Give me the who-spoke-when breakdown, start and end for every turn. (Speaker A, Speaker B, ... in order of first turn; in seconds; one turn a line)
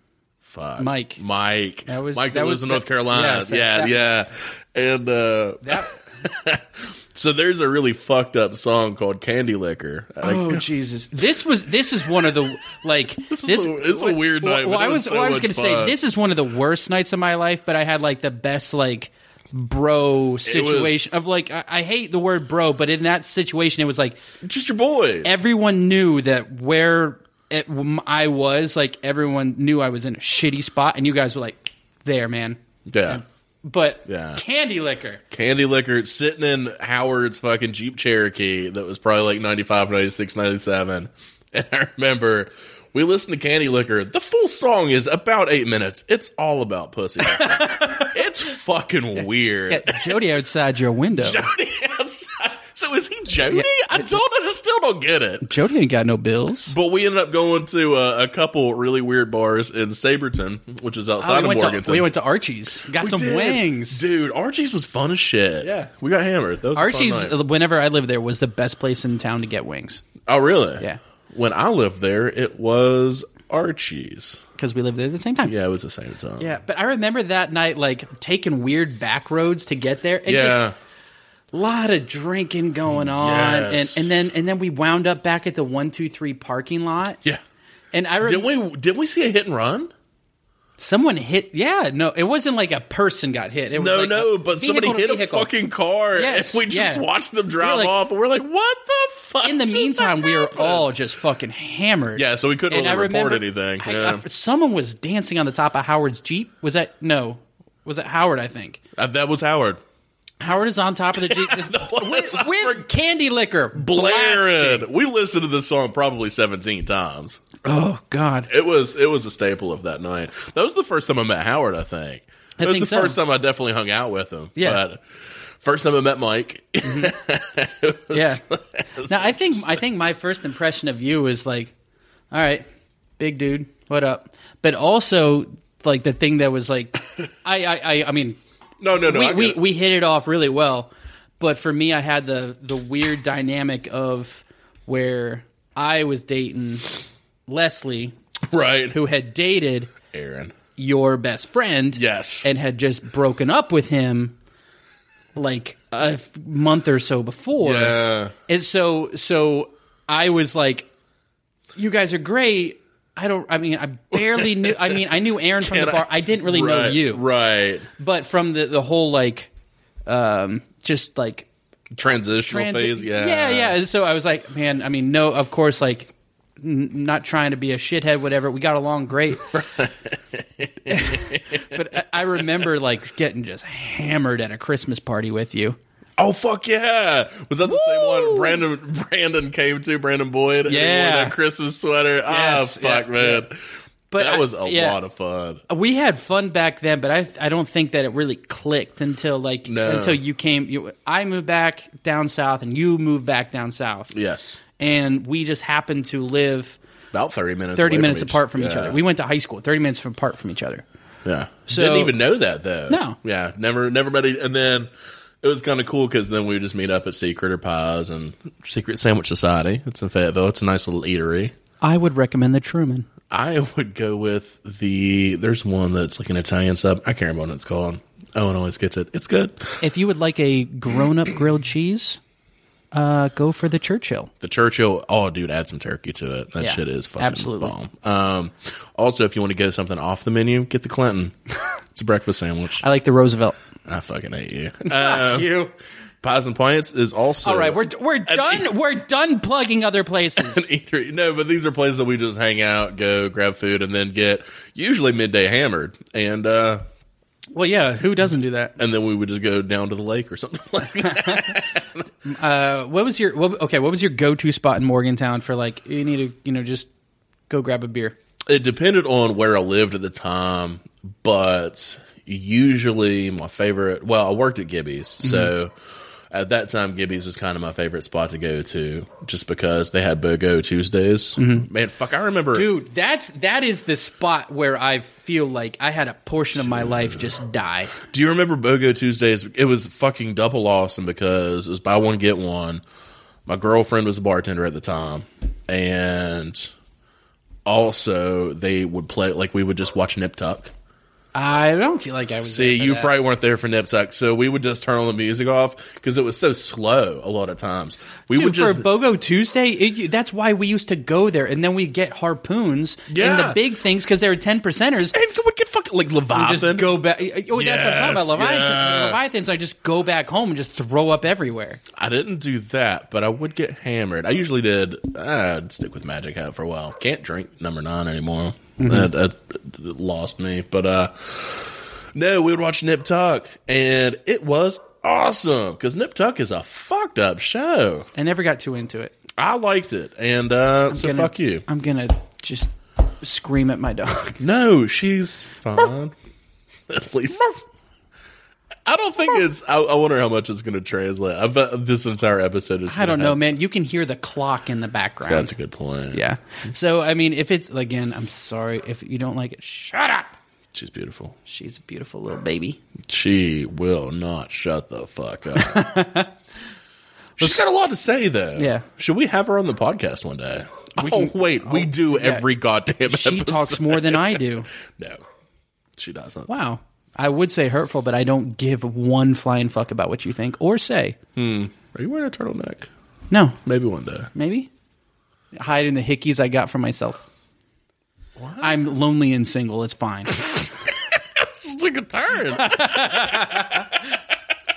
Speaker A: 0.4-10.6
Speaker B: 0.8-1.2
Speaker B: 1.9-4.0
Speaker B: 5.6-6.0
Speaker B: 10.2-24.2
Speaker A: 13.3-15.9
Speaker A: 20.4-21.1
Speaker A: 24.4-25.4
Speaker B: 25.2-35.2
Speaker A: 32.9-33.2
Speaker A: 34.0-34.4
Speaker A: 35.3-50.4
Speaker B: 47.3-48.1
Speaker B: 49.7-51.4
Speaker A: 51.2-55.5
Speaker B: 53.5-54.1
Speaker B: 55.4-56.7
Speaker A: 56.7-62.1
Speaker B: 61.2-64.0
Speaker A: 62.9-67.3
Speaker B: 66.8-70.0
Speaker A: 70.2-74.4
Speaker B: 74.6-75.5
Speaker A: 75.4-76.6
Speaker B: 76.4-80.7
Speaker A: 80.2-80.7
Speaker B: 81.5-87.2
Speaker A: 83.0-84.1
Speaker B: 87.9-88.5
Speaker A: 88.2-89.9
Speaker B: 90.8-95.5
Speaker A: 93.7-100.9
Speaker B: 96.1-97.0
Speaker B: 97.6-97.9
Speaker B: 99.4-108.8
Speaker A: 102.1-104.2
Speaker A: 109.0-109.8
Speaker B: 110.4-114.9
Speaker A: 111.1-112.8
Speaker A: 113.7-117.4
Speaker B: 117.6-118.5
Speaker A: 118.5-129.8
Speaker B: 122.6-123.2
Speaker B: 124.5-124.8
Speaker B: 126.8-127.1
Speaker B: 128.1-128.4
Speaker B: 129.0-131.7
Speaker B: 132.3-132.6
Speaker B: 133.2-138.4
Speaker A: 138.8-139.6
Speaker B: 139.0-146.8
Speaker B: 147.5-148.1
Speaker A: 148.5-149.0
Speaker B: 148.9-149.9
Speaker A: 150.1-150.6
Speaker B: 150.8-154.4
Speaker A: 151.9-152.5
Speaker B: 155.3-160.9
Speaker A: 157.6-158.3
Speaker B: 161.8-167.2
Speaker A: 164.1-167.9
Speaker B: 168.0-169.5
Speaker B: 170.1-171.5
Speaker A: 171.9-173.8
Speaker B: 172.4-179.6
Speaker A: 179.5-181.8
Speaker B: 180.9-185.8
Speaker A: 182.4-182.7
Speaker A: 186.2-193.6
Speaker B: 187.7-188.6
Speaker B: 190.7-191.4
Speaker B: 192.3-193.4
Speaker B: 194.1-195.0
Speaker A: 194.2-195.6
Speaker B: 195.7-204.1
Speaker A: 199.7-200.2
Speaker A: 204.1-204.6
Speaker B: 204.8-206.8
Speaker A: 207.1-209.0
Speaker B: 207.8-210.8
Speaker A: 211.2-214.9
Speaker B: 211.7-212.2
Speaker B: 212.9-213.2
Speaker A: 215.4-221.5
Speaker B: 221.8-223.1
Speaker A: 223.3-229.8
Speaker B: 229.8-232.2
Speaker B: 232.9-234.3
Speaker A: 234.4-241.3
Speaker B: 236.6-237.7
Speaker A: 241.9-242.8
Speaker B: 242.8-243.6
Speaker A: 243.8-245.6
Speaker B: 244.8-245.7
Speaker A: 246.2-248.7
Speaker B: 247.4-250.7
Speaker A: 250.4-256.8
Speaker B: 257.5-258.8
Speaker A: 258.8-262.0
Speaker B: 261.0-261.5
Speaker B: 262.2-266.9
Speaker B: 267.5-268.2
Speaker A: 268.4-275.7
Speaker B: 275.2-275.5
Speaker A: 276.3-282.7
Speaker B: 281.4-281.6
Speaker B: 282.5-288.0
Speaker A: 286.5-287.3
Speaker A: 288.0-292.8
Speaker A: 293.4-296.7
Speaker A: 297.6-300.7
Speaker B: 301.3-303.1
Speaker A: 302.4-308.9
Speaker B: 308.3-315.1
Speaker A: 313.1-313.6
Speaker A: 315.1-317.0
Speaker B: 316.3-321.8
Speaker A: 317.5-319.2
Speaker A: 321.9-338.1
Speaker B: 328.8-329.1
Speaker B: 338.1-339.1
Speaker A: 339.4-341.6
Speaker B: 340.9-344.4
Speaker A: 344.4-346.1
Speaker A: 346.9-347.6
Speaker A: 348.8-353.4
Speaker B: 352.9-355.5
Speaker A: 355.3-356.2
Speaker B: 356.1-360.4
Speaker A: 360.7-361.4
Speaker B: 361.4-362.8
Speaker A: 363.1-366.0
Speaker B: 365.5-366.3
Speaker A: 367.4-375.2
Speaker B: 368.6-368.9
Speaker B: 371.0-372.4
Speaker B: 373.1-374.7
Speaker A: 375.9-376.5
Speaker B: 376.5-381.2
Speaker A: 381.4-382.9
Speaker B: 383.3-383.6
Speaker A: 383.6-384.3
Speaker B: 384.3-384.7
Speaker B: 385.5-387.2
Speaker A: 388.4-388.8
Speaker B: 388.6-390.5
Speaker A: 391.1-394.2
Speaker B: 392.5-393.9